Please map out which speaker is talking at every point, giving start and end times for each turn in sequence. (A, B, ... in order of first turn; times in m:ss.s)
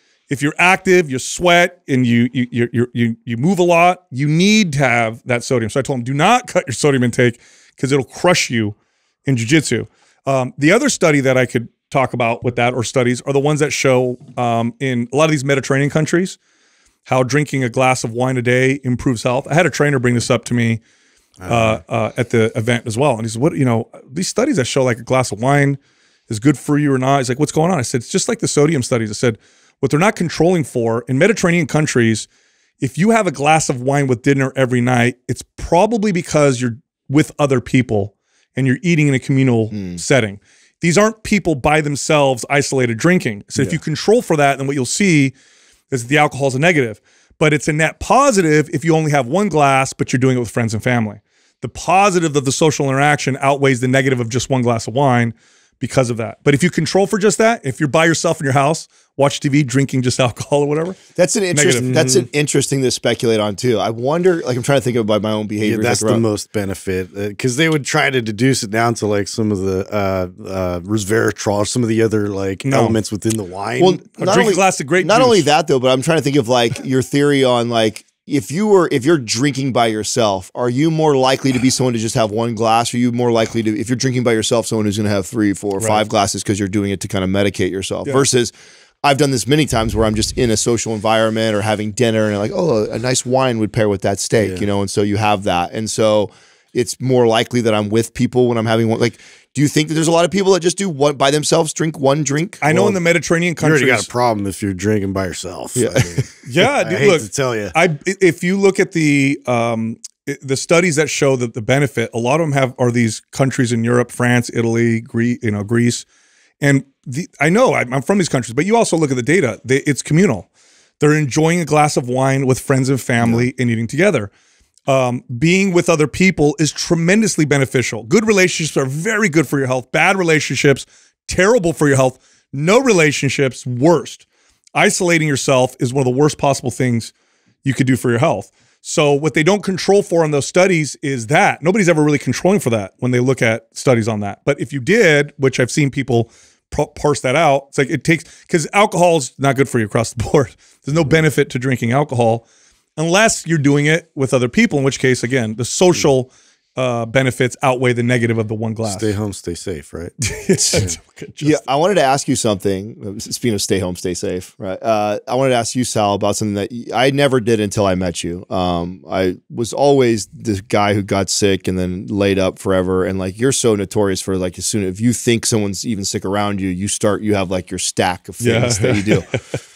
0:00.3-0:08.7 A
0:09.2-0:16.4 A
0:17.1-0:20.8 A
0:21.4-0:21.8 B
0:21.5-0:32.3 A
0:32.8-0:45.3 A
0:39.7-0:40.0 C
0:43.5-0:43.8 C
0:45.9-1:01.0 A
1:01.2-1:06.2 C
1:01.5-1:01.9 A
1:01.8-1:02.3 B
1:05.6-1:14.0 B
1:12.6-1:13.0 A
1:13.8-1:42.6 C
1:14.2-1:15.5 A
1:25.8-1:26.0 A
1:34.4-1:34.6 B
1:42.6-1:44.1 A
1:42.7-1:43.0 B
1:43.6-1:47.7 B
1:45.8-1:46.2 C
1:46.4-1:56.0 A
1:56.6-2:00.5 A
2:01.0-2:04.3 A
2:04.9-2:14.2 A
2:14.7-2:17.1 A
2:17.6-2:32.4 A
2:33.0-2:39.2 A
2:38.8-2:40.1 B
2:40.2-2:41.6 A
2:41.4-2:59.3 C
2:58.4-2:59.4 A